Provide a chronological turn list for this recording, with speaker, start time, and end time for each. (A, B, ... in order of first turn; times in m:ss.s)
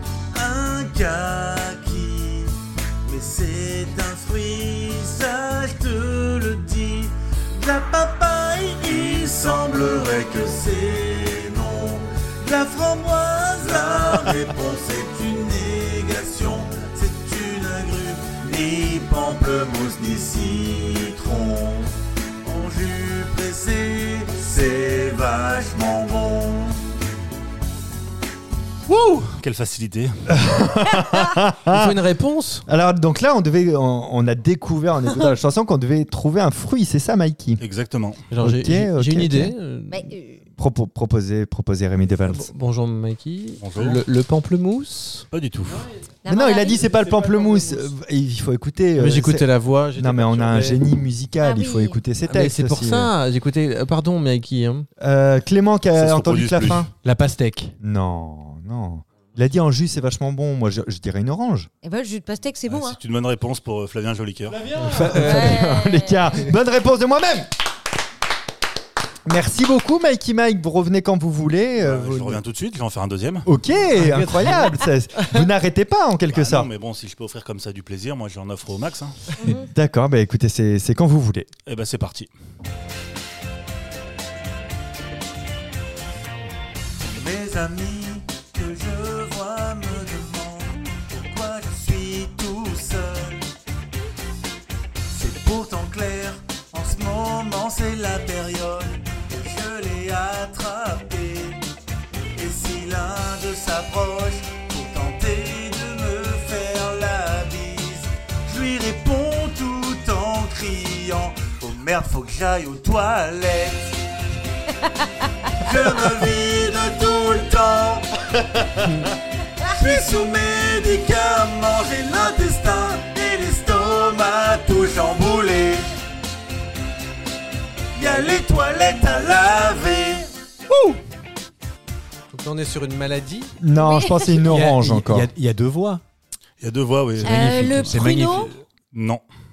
0:00.3-0:21.9 A
0:22.4-0:26.8 A
0:28.9-0:30.1 B
0:30.3-0:32.0 C
0:31.7-0:32.6 D
0:32.7-0:37.6 C
0:37.6-0:38.2 B
0:38.3-0:40.0 D
0:38.4-0:39.5 C
0:39.9-0:40.4 E
0:40.6-0:42.5 C
0:42.2-0:45.2 D
0:43.6-0:44.0 B
0:45.3-0:45.8 B
0:45.6-0:46.0 F
0:46.2-0:46.9 E
0:46.3-0:53.1 C
0:46.8-0:47.9 F
0:49.0-0:50.8 D
0:51.4-0:52.0 E
0:52.3-0:54.9 D
0:55.0-0:56.9 C
0:55.9-0:56.8 B
0:57.0-0:57.7 D
0:57.8-1:01.7 C
1:01.8-1:03.0 E
1:02.7-1:04.6 B
1:04.5-1:05.3 F
1:04.8-1:07.5 C
1:05.0-1:05.6 D
1:05.2-1:06.4 E
1:09.2-1:12.4 C
1:11.8-1:13.5 B
1:13.4-1:16.7 C
1:13.9-1:15.4 D
1:16.3-1:19.2 B
1:19.4-1:19.7 E
1:19.4-1:21.5 C
1:21.6-1:22.3 B
1:27.0-1:33.4 A
1:35.1-1:41.6 A
1:42.3-1:53.9 A
1:55.5-1:58.0 A
1:59.6-2:05.8 A
2:07.9-2:10.2 A
2:12.3-2:13.5 D
2:13.6-2:15.3 C
2:13.7-2:14.5 E
2:14.5-2:16.0 F
2:16.6-2:19.2 B
2:17.2-2:18.5 E
2:17.3-2:18.5 F